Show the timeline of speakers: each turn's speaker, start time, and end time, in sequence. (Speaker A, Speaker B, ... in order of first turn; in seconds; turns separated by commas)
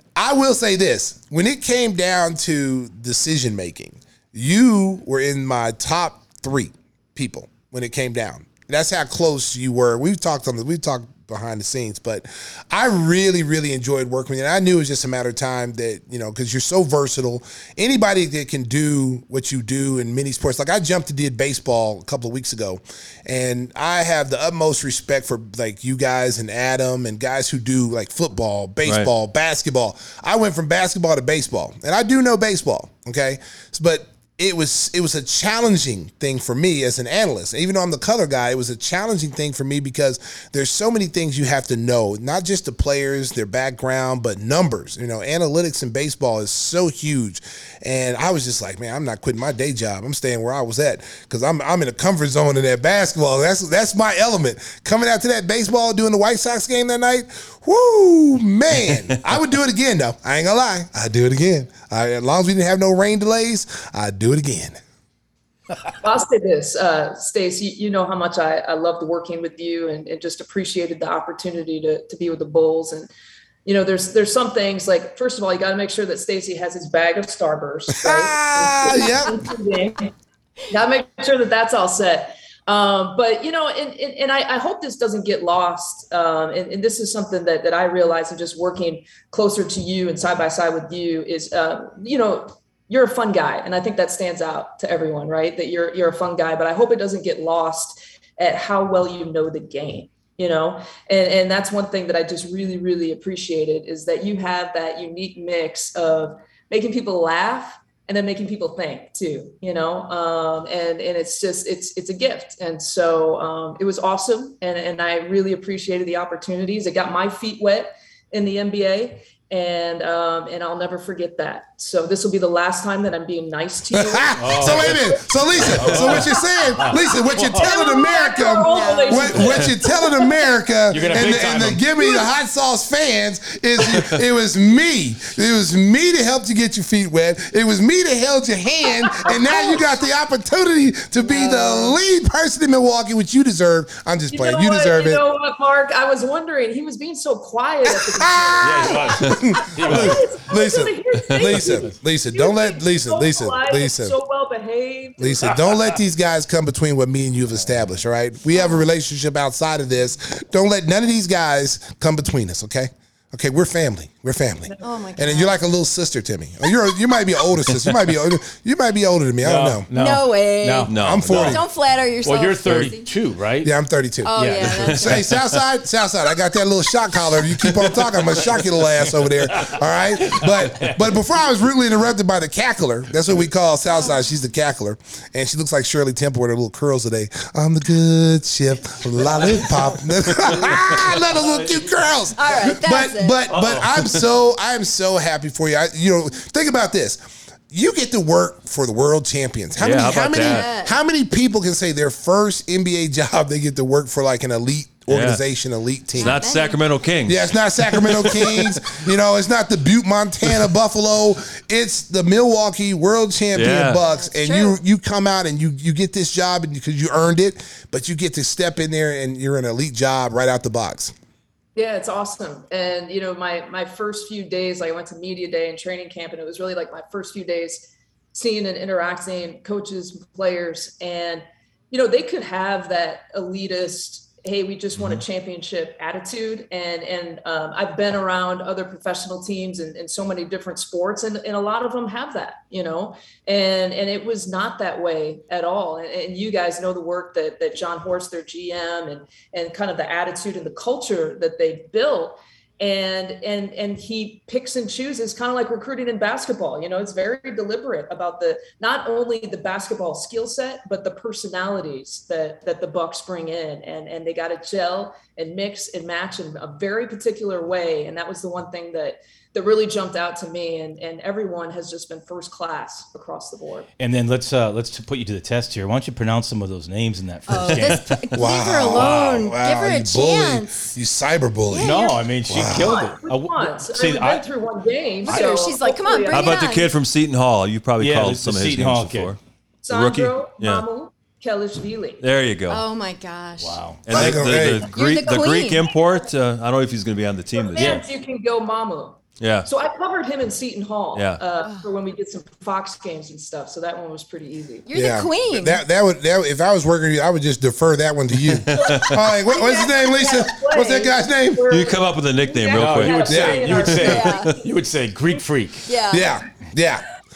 Speaker A: 0.2-64.8, Speaker B: 66.0-73.1, Speaker B: 73.7-80.1, Speaker A: 77.9-79.4, Speaker B: 80.7-126.7, Speaker A: 123.9-145.2, Speaker C: 124.4-125.0, Speaker C: 125.6-127.8, Speaker B: 127.4-130.1, Speaker D: 128.6-130.0, Speaker C: 130.9-131.8, Speaker B: 139.2-139.8, Speaker B: 144.3-155.6, Speaker A: 147.9-154.2, Speaker C: 148.6-150.2, Speaker E: 151.3-151.7, Speaker A: 155.2-169.9, Speaker C: 155.7-156.0, Speaker C: 157.6-157.9, Speaker D: 158.6-158.9, Speaker B: 164.7-165.0, Speaker D: 164.8-165.6, Speaker C: 169.4-171.4, Speaker D: 169.9-173.1, Speaker E: 170.9-171.6, Speaker A: 170.9-171.6, Speaker C: 172.2-173.7, Speaker A: 173.6-206.5, Speaker D: 174.2-175.3, Speaker C: 174.3-175.1, Speaker E: 174.9-175.4, Speaker C: 177.9-178.7, Speaker C: 179.2-181.1, Speaker C: 189.2-192.0, Speaker D: 192.4-193.5, Speaker C: 193.5-193.9, Speaker E: 199.8-200.7, Speaker D: 200.3-201.0, Speaker E: 205.1-205.4, Speaker D: 206.2-206.8, Speaker E: 206.2-209.0, Speaker A: 207.3-221.1, Speaker E: 213.6-214.0, Speaker D: 214.1-214.8, Speaker B: 221.8-273.9, Speaker E: 235.0-235.2, Speaker C: 274.0-278.2, Speaker D: 277.5-280.9, Speaker E: 277.9-278.4, Speaker A: 278.4-282.0, Speaker E: 278.9-279.3, Speaker D: 281.7-282.2, Speaker C: 281.8-284.5, Speaker A: 282.5-282.9, Speaker B: 282.7-286.6, Speaker D: 285.2-286.9, Speaker E: 286.3-289.4, Speaker C: 288.0-289.4, Speaker B: 289.8-292.2, Speaker E: 289.9-290.9, Speaker E: 292.2-292.8, Speaker D: 292.7-294.3, Speaker C: 293.6-294.0, Speaker E: 294.1-298.1, Speaker A: 294.1-294.9, Speaker D: 294.9-295.9, Speaker B: 297.6-304.9, Speaker C: 297.8-298.1, Speaker E: 299.4-299.7, Speaker E: 301.1-301.4, Speaker D: 301.6-301.9, Speaker D: 304.9-305.8, Speaker A: 304.9-311.7, Speaker E: 308.5-309.3, Speaker B: 308.7-314.7, Speaker E: 311.7-314.2, Speaker C: 312.7-315.9, Speaker A: 313.3-313.7, Speaker D: 314.0-314.5, Speaker D: 315.9-316.4, Speaker A: 316.1-317.0